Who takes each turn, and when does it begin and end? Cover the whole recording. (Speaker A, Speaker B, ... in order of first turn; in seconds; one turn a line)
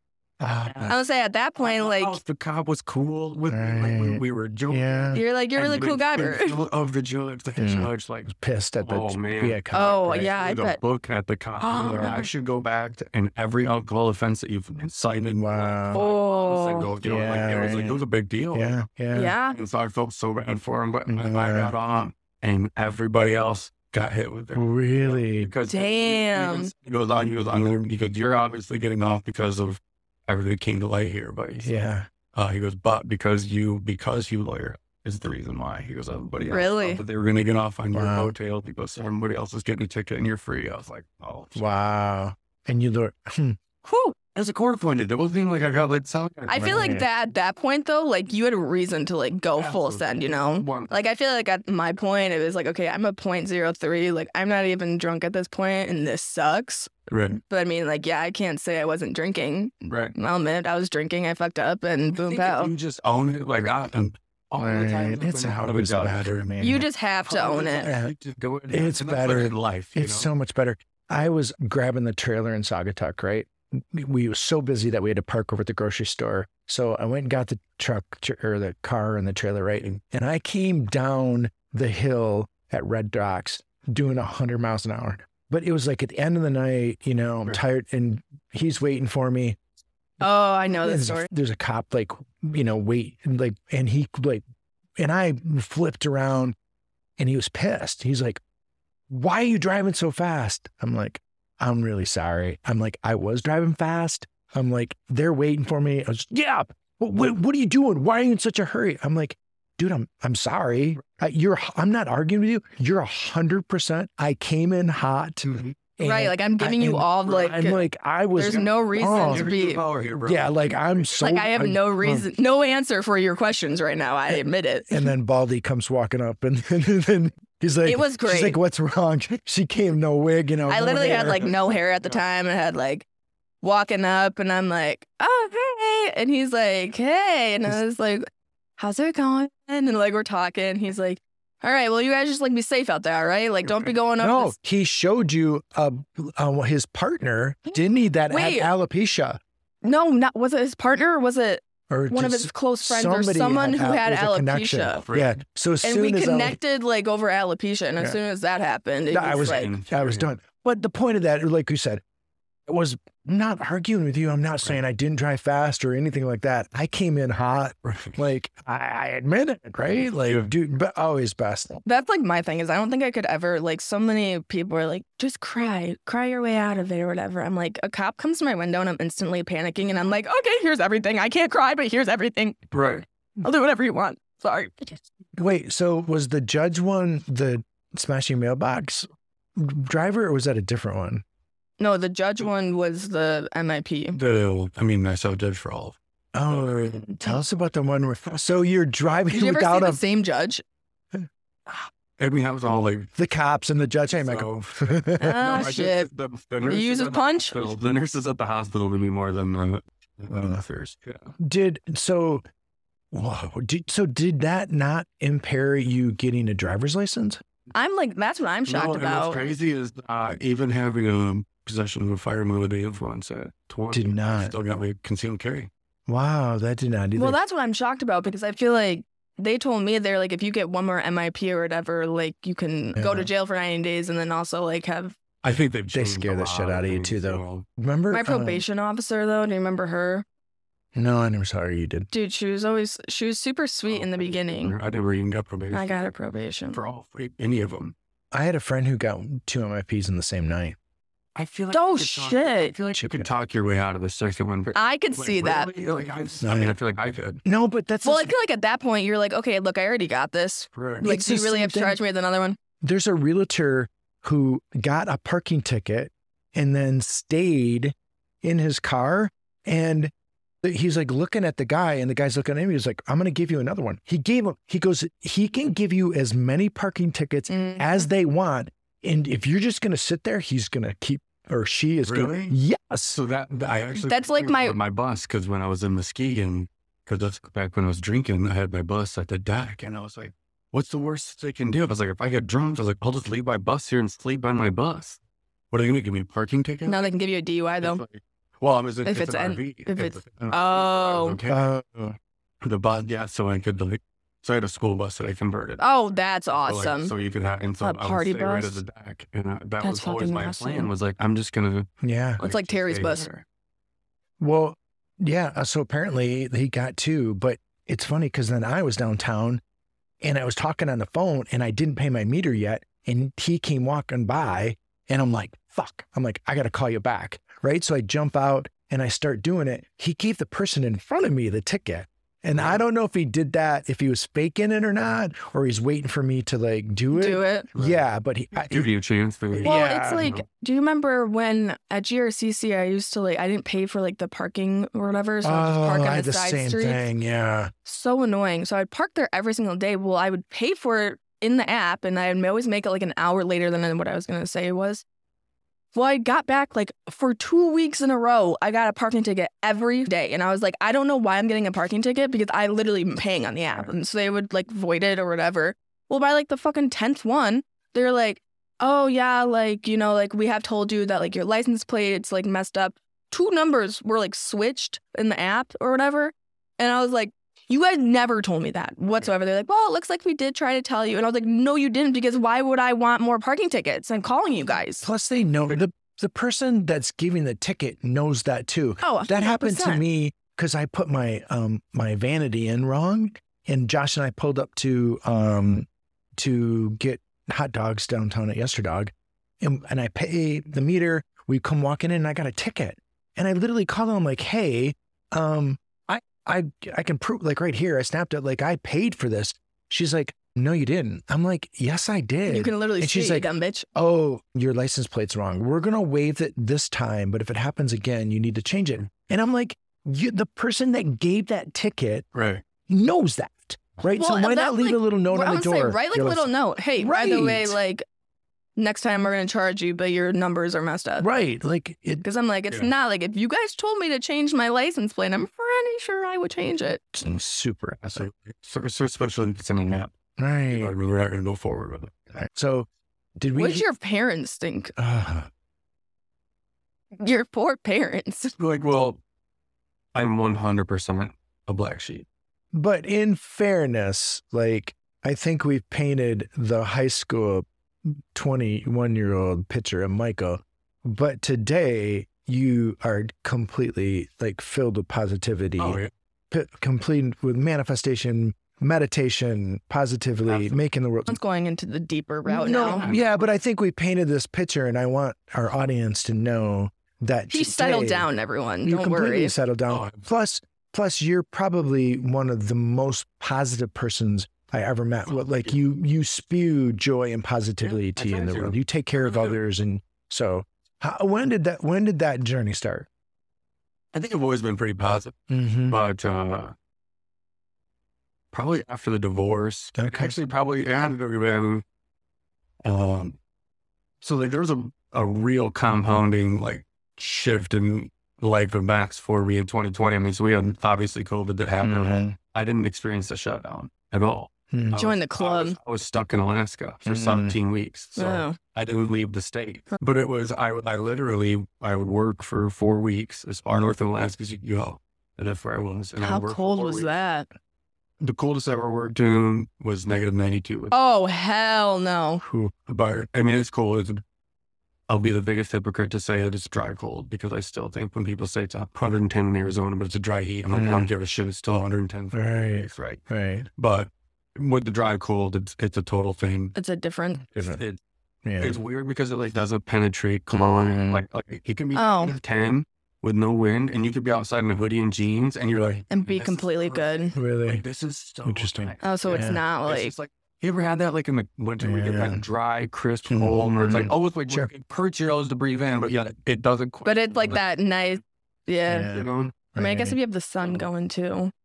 Speaker A: 0.4-0.9
Speaker B: 0.6-0.9
Speaker C: 0.9-2.2
Speaker B: 1.6-18.8
Speaker A: 3.5-5.2
Speaker C: 5.1-6.6
Speaker A: 7.6-10.3
Speaker C: 9.7-10.8
Speaker C: 11.6-12.3
Speaker A: 11.8-12.2
Speaker A: 15.4-16.0
Speaker C: 15.9-16.9
Speaker A: 17.0-18.0
Speaker A: 18.5-19.3
Speaker C: 19.1-19.6
Speaker B: 19.5-41.6
Speaker A: 21.1-21.7
Speaker A: 24.5-25.5
Speaker C: 25.7-26.7
Speaker A: 31.6-32.1
Speaker C: 36.5-37.0
Speaker A: 37.9-38.3
Speaker A: 41.5-43.6
Speaker C: 43.8-44.1
Speaker B: 44.3-47.0
Speaker C: 46.5-56.9
Speaker A: 46.5-47.0
Speaker B: 49.5-50.9
Speaker B: 57.1-57.4
Speaker C: 57.5-62.7
Speaker B: 59.8-60.1
Speaker B: 62.2-66.6
Speaker A: 64.6-66.8
Speaker C: 66.6-67.9
Speaker B: 67.3-70.3
Speaker A: 67.8-68.1
Speaker A: 68.7-89.6
Speaker C: 90.2-91.3
Speaker A: 90.8-94.4
Speaker A: 95.0-96.5
Speaker A: 97.2-98.4
Speaker A: 99.1-119.5
Speaker B: 115.5-115.7
Speaker C: 116.0-117.8
Speaker C: 118.3-119.8
Speaker B: 118.4-121.1
Speaker A: 120.2-122.3
Speaker C: 121.2-125.1
Speaker A: 124.3-131.5
Speaker C: 127.8-128.6
Speaker C: 130.7-133.0
Speaker C: 133.6-144.6
Speaker A: 144.2-149.4
Speaker C: 148.3-148.7
Speaker C: 149.8-155.0
Speaker A: 151.9-156.6
Speaker B: 155.0-155.4
Speaker C: 155.8-159.7
Speaker A: 159.1-162.0
Speaker B: 159.2-160.3
Speaker A: 162.7-171.8
Speaker B: 167.8-168.2
Speaker C: 171.8-182.6
Speaker B: 182.7-183.0
Speaker C: 183.4-185.0
Speaker A: 185.3-191.2
Speaker C: 191.8-194.2
Speaker B: 194.1-196.0
Speaker A: 196.3-200.0
Speaker C: 199.3-200.6
Speaker B: 202.2-203.1
Speaker A: 203.2-205.7
Speaker B: 204.1-211.3
Speaker C: 205.2-206.1
Speaker C: 206.6-207.6
Speaker A: 210.3-210.6
Speaker A: 211.4-212.4
Speaker A: 213.1-217.4
Speaker C: 217.7-219.4
Speaker B: 218.7-225.7
Speaker A: 223.9-224.5
Speaker A: 226.1-227.4
Speaker C: 227.2-235.2
Speaker A: 232.9-233.3
Speaker B: 235.4-237.7
Speaker A: 235.9-238.6
Speaker C: 238.1-240.2
Speaker A: 240.9-242.1
Speaker C: 242.1-244.8
Speaker B: 243.9-246.1
Speaker C: 245.7-246.8
Speaker B: 246.7-247.9
Speaker A: 248.3-250.8
Speaker B: 251.3-257.4
Speaker C: 251.7-252.7
Speaker A: 252.9-253.3
Speaker C: 254.7-255.7
Speaker A: 256.4-256.8
Speaker A: 257.4-258.3
Speaker C: 258.0-262.6
Speaker B: 260.7-261.1
Speaker A: 261.0-262.0
Speaker A: 262.8-270.1
Speaker A: 270.6-283.2
Speaker C: 277.5-278.1
Speaker B: 282.0-282.6
Speaker B: 283.1-295.2
Speaker C: 283.9-284.8
Speaker B: 295.7-297.1
Speaker C: 296.9-298.0
Speaker B: 297.8-301.6
Speaker C: 299.0-301.4
Speaker A: 301.5-302.1
Speaker B: 302.6-305.8
Speaker C: 305.8-307.1
Speaker B: 306.6-313.4
Speaker C: 307.8-308.8
Speaker C: 309.8-310.9
Speaker A: 312.0-312.4
Speaker C: 312.4-313.2
Speaker A: 314.4-319.6
Speaker A: 320.2-338.9
Speaker B: 332.5-332.8
Speaker C: 337.1-337.7
Speaker B: 337.7-338.0
Speaker B: 338.6-340.4
Speaker A: 339.5-340.3
Speaker C: 339.6-347.0
Speaker A: 345.4-347.7
Speaker C: 347.8-355.0
Speaker C: 355.9-385.1
Speaker A: 385.0-422.3
Speaker C: 389.0-390.0
Speaker C: 412.5-413.9
Speaker B: 422.3-422.6
Speaker A: 422.9-427.8
Speaker C: 424.1-428.0
Speaker C: 428.8-431.3
Speaker A: 431.2-432.2
Speaker C: 432.2-437.1
Speaker A: 437.1-438.3
Speaker B: 438.0-440.1
Speaker A: 440.4-440.9
Speaker B: 440.7-442.4
Speaker A: 442.4-443.8
Speaker C: 443.5-444.9
Speaker A: 445.0-445.5
Speaker C: 447.2-448.5
Speaker B: 448.6-449.2
Speaker B: 450.1-452.2
Speaker A: 452.7-471.4
Speaker B: 465.8-466.1
Speaker B: 470.4-470.8
Speaker C: 471.3-473.1
Speaker A: 472.4-478.3
Speaker B: 472.7-473.4
Speaker C: 477.5-479.5
Speaker A: 478.8-493.1
Speaker B: 479.9-480.2
Speaker B: 485.3-485.7
Speaker B: 487.8-489.6
Speaker B: 494.1-495.4
Speaker A: 495.5-496.0
Speaker B: 495.9-496.7
Speaker B: 498.5-501.8
Speaker A: 499.9-500.3
Speaker B: 502.8-503.4
Speaker B: 504.2-527.1
Speaker A: 511.8-512.4
Speaker A: 514.7-515.0
Speaker C: 515.0-515.8
Speaker A: 517.0-517.6
Speaker C: 518.2-518.6
Speaker C: 526.2-527.5
Speaker B: 528.2-530.9
Speaker C: 530.9-532.4
Speaker A: 532.4-532.7
Speaker B: 532.9-534.2
Speaker B: 535.1-543.2
Speaker A: 540.7-541.1
Speaker A: 542.3-543.7
Speaker B: 543.8-546.7
Speaker C: 546.7-547.4
Speaker A: 547.5-547.8
Speaker B: 547.5-548.0
Speaker A: 548.4-548.8
Speaker B: 548.6-567.6
Speaker A: 550.9-551.2
Speaker C: 551.9-552.3
Speaker C: 556.1-557.3
Speaker A: 557.3-557.8
Speaker A: 558.4-559.6
Speaker C: 559.0-560.1
Speaker A: 561.8-562.4
Speaker A: 563.3-564.7
Speaker C: 567.0-569.1
Speaker A: 568.9-570.2
Speaker B: 569.1-569.5
Speaker C: 569.7-571.5